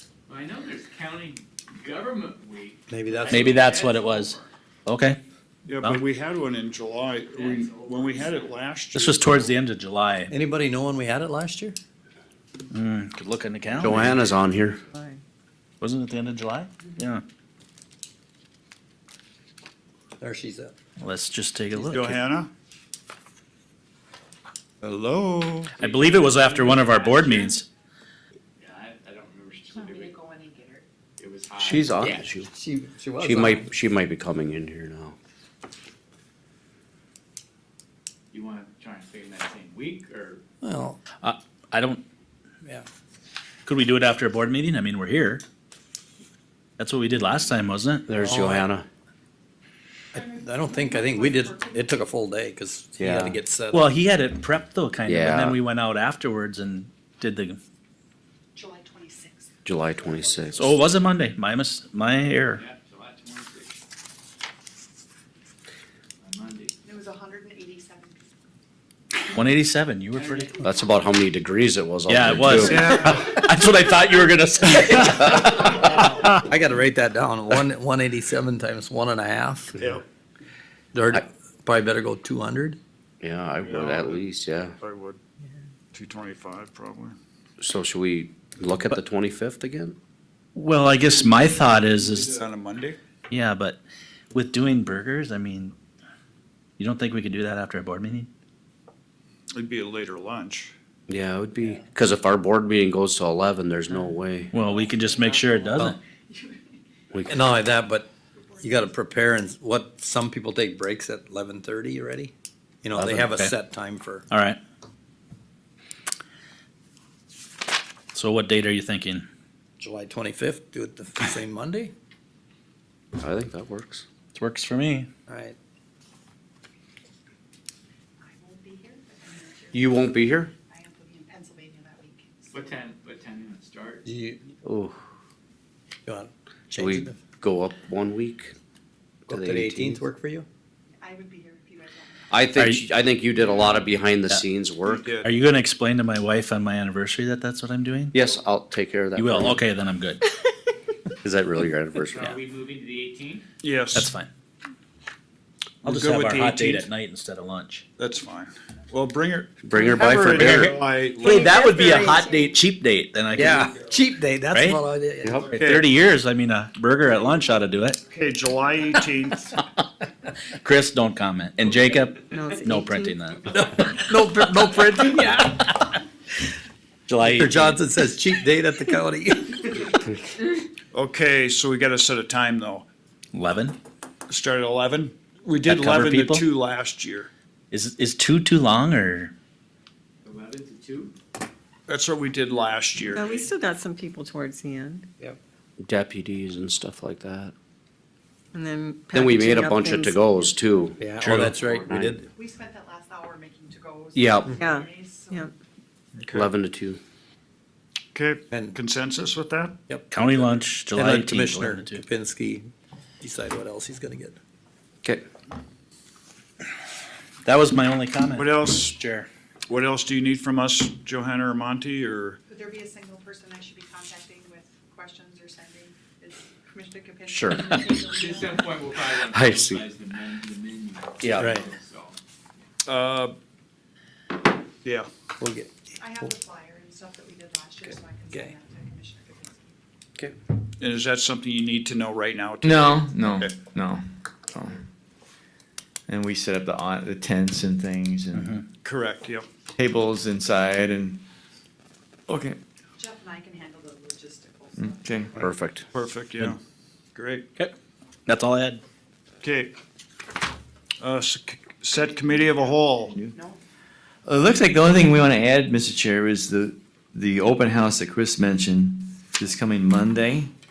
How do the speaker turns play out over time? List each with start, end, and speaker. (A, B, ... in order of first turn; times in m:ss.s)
0:00.3-0:04.4 A
0:02.9-0:03.7 B
0:03.3-0:05.2 C
0:05.6-0:09.4 D
0:07.3-0:08.5 A
0:08.9-0:10.3 C
0:10.3-0:11.8 B
0:12.7-0:14.3 C
0:13.8-0:14.8 E
0:14.9-0:15.2 F
0:15.8-0:17.2 C
0:20.2-0:20.7 B
0:21.0-0:22.2 C
0:21.9-0:22.5 D
0:24.8-0:25.8 D
0:25.8-0:27.7 C
0:28.6-0:30.1 A
0:29.7-0:30.8 G
0:31.2-0:31.9 A
0:31.6-0:32.5 E
0:32.0-0:33.6 B
0:33.2-0:35.2 E
0:38.3-0:40.4 A
0:40.6-0:41.0 B
0:41.2-0:42.0 C
0:43.6-0:45.4 C
0:46.8-0:48.1 C
0:48.1-0:48.8 E
0:48.2-0:48.7 B
0:50.1-0:53.9 B
0:50.1-0:51.9 G
0:53.0-0:53.4 E
0:53.7-0:57.6 C
0:55.1-0:55.6 E
0:58.5-0:59.5 G
0:59.6-1:00.7 E
1:00.5-1:02.6 C
1:02.6-1:03.8 A
1:06.2-1:06.7 A
1:06.8-1:08.2 G
1:09.3-1:10.6 C
1:10.6-1:13.1 E
1:12.1-1:15.9 C
1:12.7-1:13.2 D
1:15.2-1:19.9 B
1:19.8-1:20.0 D
1:20.9-1:22.8 B
1:23.2-1:24.7 E
1:23.6-1:24.2 D
1:24.8-1:25.2 D
1:25.9-1:27.2 D
1:27.6-1:30.0 E
1:30.5-1:32.3 C
1:32.2-1:33.0 D
1:33.3-1:33.8 C
1:34.3-1:35.7 C
1:36.8-1:38.3 C
1:39.5-1:40.7 D
1:41.1-1:44.5 E
1:44.5-1:46.0 C
1:44.5-1:46.6 G
1:47.1-1:47.5 E
1:47.3-1:48.1 B
1:48.4-1:48.9 G
1:48.6-1:52.3 B
1:52.8-1:54.3 B
1:53.0-1:53.5 C
1:54.3-1:54.6 C
1:58.1-1:59.2 C
1:59.8-2:01.9 B
2:03.2-2:04.0 E
2:04.3-2:05.1 C
2:05.3-2:05.6 B
2:08.2-2:12.8 G
2:09.7-2:10.5 E
2:12.5-2:14.0 A
2:14.0-2:14.5 B
2:14.6-2:15.0 E
2:16.0-2:17.2 B
2:16.7-2:18.5 E
2:19.3-2:20.4 B
2:19.3-2:20.0 E
2:21.0-2:22.4 G
2:22.3-2:25.1 E
2:22.6-2:22.8 C
2:24.8-2:25.3 D
2:25.2-2:28.1 C
2:28.1-2:29.6 E
2:29.2-2:30.2 C
2:31.2-2:32.4 E
2:32.1-2:33.4 A
2:33.6-2:34.1 D
2:33.9-2:34.3 C
2:35.8-2:36.9 D
2:35.8-2:37.8 C
2:38.0-2:41.3 D
2:39.6-2:40.7 E
2:40.5-2:43.7 C
2:41.2-2:42.5 F
2:43.3-2:45.6 B
2:44.5-2:44.8 C
2:45.2-2:45.5 E
2:45.5-2:48.0 C
2:45.5-2:45.9 D
2:48.1-2:49.6 D
2:50.5-2:53.7 C
2:52.3-2:53.2 F
2:53.5-2:56.0 B
2:57.1-2:57.8 C
2:57.2-3:00.0 B
3:00.9-3:02.8 D
3:03.3-3:03.8 C
3:04.3-3:07.3 D
3:05.6-3:06.4 C
3:07.7-3:09.3 C
3:10.2-3:11.1 A
3:11.9-3:13.3 D
3:13.0-3:15.1 F
3:15.8-3:17.5 E
3:18.5-3:20.2 F
3:19.1-3:21.0 E
3:21.0-3:22.3 B
3:21.2-3:21.6 C
3:21.8-3:22.2 E
3:22.3-3:25.5 G
3:24.1-3:24.6 E
3:24.5-3:25.5 F
3:26.2-3:26.5 D
3:26.3-3:27.0 E
3:28.1-3:29.8 D
3:30.1-3:32.0 C
3:30.9-3:32.7 B
3:33.2-3:34.4 B
3:37.4-3:39.3 C
3:38.3-3:39.0 D
3:39.7-3:42.4 D
3:42.5-3:48.7 G
3:47.3-3:48.0 E
3:48.1-3:52.2 A
3:49.1-3:49.8 E
3:51.2-3:51.6 E
3:51.4-3:51.7 B
3:52.8-3:53.4 D
3:55.4-3:55.7 B
3:56.0-3:59.8 G
4:00.8-4:03.6 D
4:02.6-4:04.8 H
4:06.1-4:08.6 H
4:08.3-4:08.6 C
4:08.8-4:09.5 D
4:09.8-4:11.2 H
4:12.3-4:12.6 H
4:13.0-4:15.5 G
4:14.8-4:15.4 H
4:15.4-4:15.8 E
4:15.9-4:16.6 D
4:17.1-4:17.5 D
4:18.2-4:18.8 C
4:19.4-4:19.7 D
4:21.0-4:23.1 D
4:21.9-4:23.6 G
4:24.2-4:30.5 H